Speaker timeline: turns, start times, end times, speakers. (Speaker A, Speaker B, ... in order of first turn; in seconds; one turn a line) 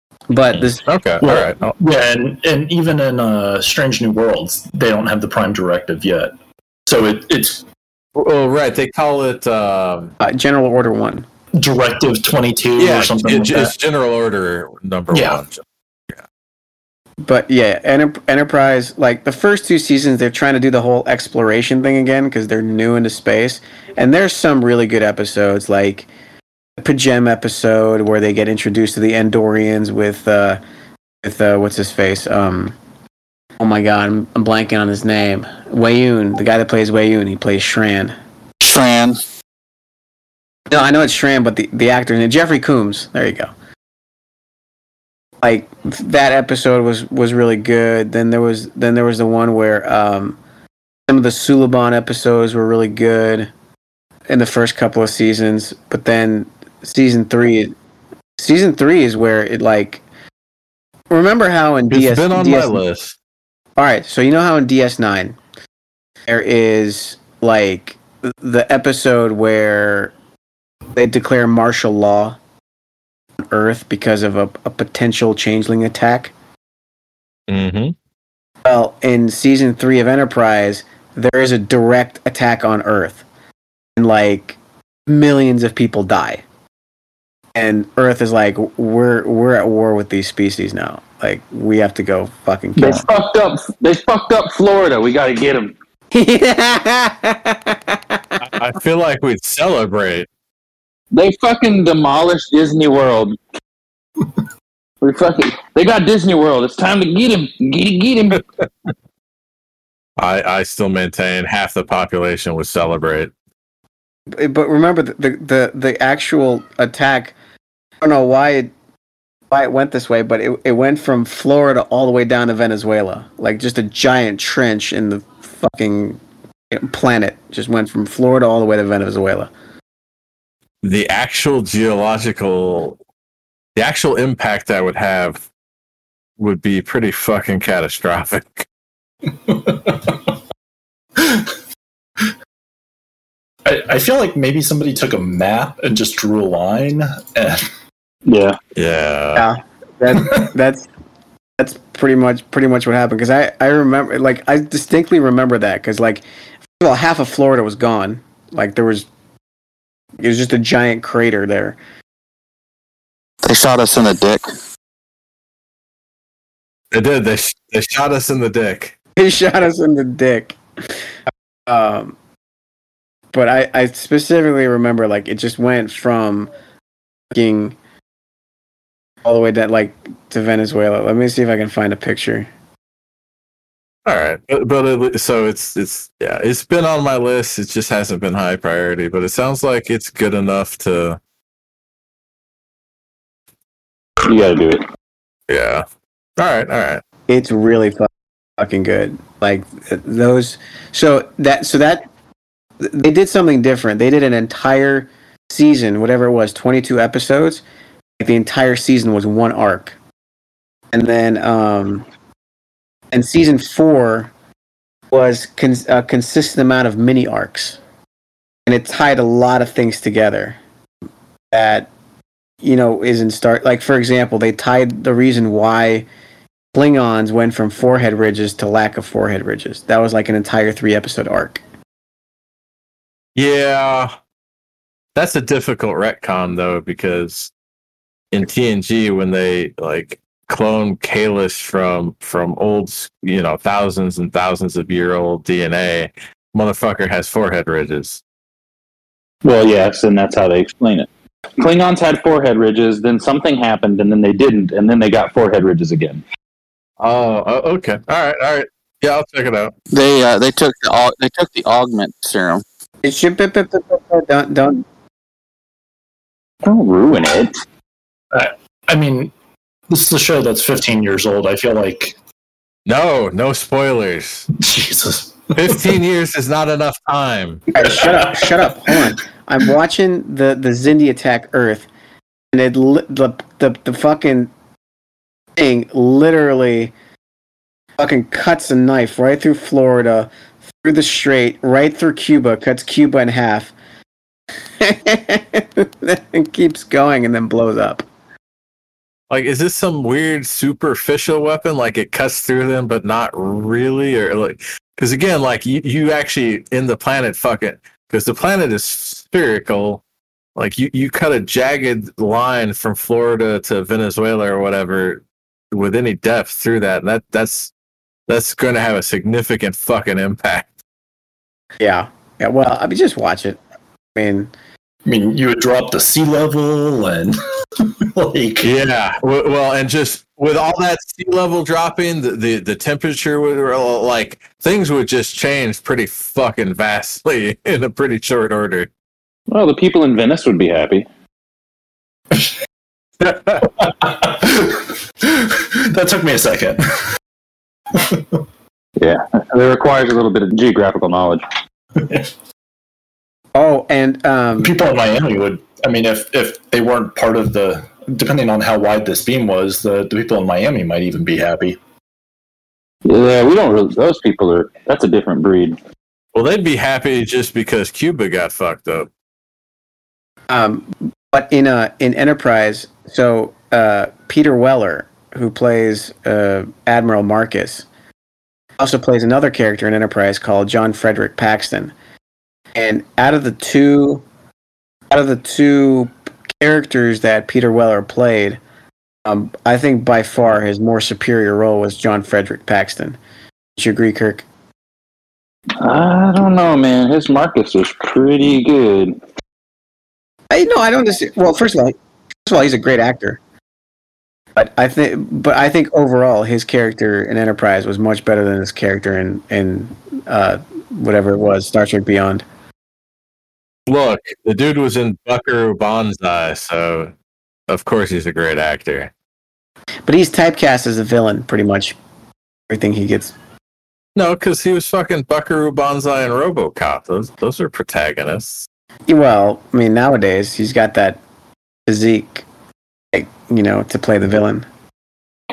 Speaker A: 0.3-0.8
Speaker B: 0.7-1.8
Speaker C: 1.2-6.3
Speaker C: 6.8-7.6
Speaker B: 8.1-10.1
Speaker A: 10.2-11.2
Speaker C: 11.6-13.7
Speaker B: 12.8-16.2
Speaker C: 15.1-15.4
Speaker A: 17.2-26.1
Speaker A: 26.8-30.6
Speaker A: 31.2-32.7
Speaker A: 33.6-38.1
Speaker D: 38.6-39.2
Speaker A: 40.7-43.5
Speaker A: 45.4-50.4
Speaker A: 51.1-53.5
Speaker A: 54.3-57.7
Speaker A: 58.4-60.0
Speaker A: 61.1-62.8
Speaker B: 61.9-63.1
Speaker A: 63.8-65.4
Speaker A: 66.3-70.1
Speaker A: 71.0-72.4
Speaker A: 73.5-76.3
Speaker B: 77.5-77.9
Speaker A: 78.6-83.2
Speaker A: 84.0-86.4
Speaker A: 87.5-93.0
Speaker E: 92.8-95.7
Speaker A: 96.1-98.4
Speaker B: 98.4-100.3
Speaker E: 101.1-103.4
Speaker E: 105.0-108.4
Speaker B: 110.2-113.3
Speaker A: 114.3-117.3
Speaker A: 118.0-118.7
Speaker A: 119.5-126.2
Speaker A: 126.7-129.5
Speaker B: 130.8-133.0
Speaker B: 133.7-135.4
Speaker B: 136.4-138.7
Speaker C: 139.3-140.3
Speaker C: 141.2-141.5
Speaker C: 143.6-147.7
Speaker E: 148.2-148.6
Speaker B: 148.7-149.5
Speaker A: 149.3-150.9
Speaker A: 151.6-156.2
Speaker A: 156.8-159.1
Speaker A: 160.2-161.8
Speaker D: 163.4-164.5
Speaker B: 166.9-168.9
Speaker A: 169.2-170.6
Speaker A: 171.7-172.1
Speaker A: 173.3-176.5
Speaker A: 177.3-177.7
Speaker A: 179.2-182.5
Speaker B: 184.1-191.2
Speaker E: 194.2-194.8
Speaker B: 195.5-195.8
Speaker B: 196.4-197.0
Speaker A: 197.3-202.0
Speaker A: 202.8-207.6
Speaker A: 208.2-210.0
Speaker A: 210.9-212.1
Speaker A: 213.1-214.3
Speaker A: 215.1-217.8
Speaker A: 218.7-220.6
Speaker A: 221.5-221.9
Speaker A: 222.6-226.0
Speaker A: 226.7-231.6
Speaker B: 233.3-234.1
Speaker B: 235.1-237.5
Speaker B: 238.3-248.2
Speaker E: 249.4-251.1
Speaker E: 251.6-256.2
Speaker B: 257.0-259.7
Speaker D: 259.9-262.6
Speaker A: 263.0-264.8
Speaker E: 266.6-267.5
Speaker C: 268.3-269.3
Speaker C: 269.9-272.1
Speaker B: 272.9-274.5
Speaker C: 274.6-275.9
Speaker B: 275.5-277.6
Speaker A: 277.7-281.9
Speaker C: 277.8-279.1
Speaker A: 282.5-284.5
Speaker A: 285.6-286.9
Speaker A: 288.0-290.3
Speaker A: 290.8-293.7
Speaker A: 294.8-298.0
Speaker B: 299.3-310.0
Speaker B: 310.6-317.7
Speaker B: 318.3-320.7
Speaker A: 321.8-323.6
Speaker A: 324.1-324.5
Speaker C: 325.0-328.7
Speaker B: 328.6-338.9
Speaker E: 339.5-341.1
Speaker B: 343.2-343.6
Speaker C: 343.6-347.1
Speaker C: 347.9-348.4
Speaker E: 349.0-351.4
Speaker C: 352.0-352.3
Speaker A: 353.5-354.7
Speaker C: 354.6-361.8
Speaker E: 363.0-365.8
Speaker B: 366.3-369.1
Speaker A: 370.5-377.9
Speaker A: 378.8-381.9
Speaker A: 382.7-384.2
Speaker A: 385.1-388.6
Speaker A: 389.2-393.2
Speaker A: 393.8-394.4
Speaker E: 395.8-399.2
Speaker A: 400.5-401.9
Speaker A: 402.5-403.4
Speaker A: 404.6-412.4
Speaker B: 413.9-417.1
Speaker B: 417.7-419.1
Speaker A: 420.1-421.9
Speaker A: 422.7-423.3
Speaker B: 424.1-428.7
Speaker A: 429.1-431.2
Speaker A: 431.9-432.4
Speaker A: 433.1-434.6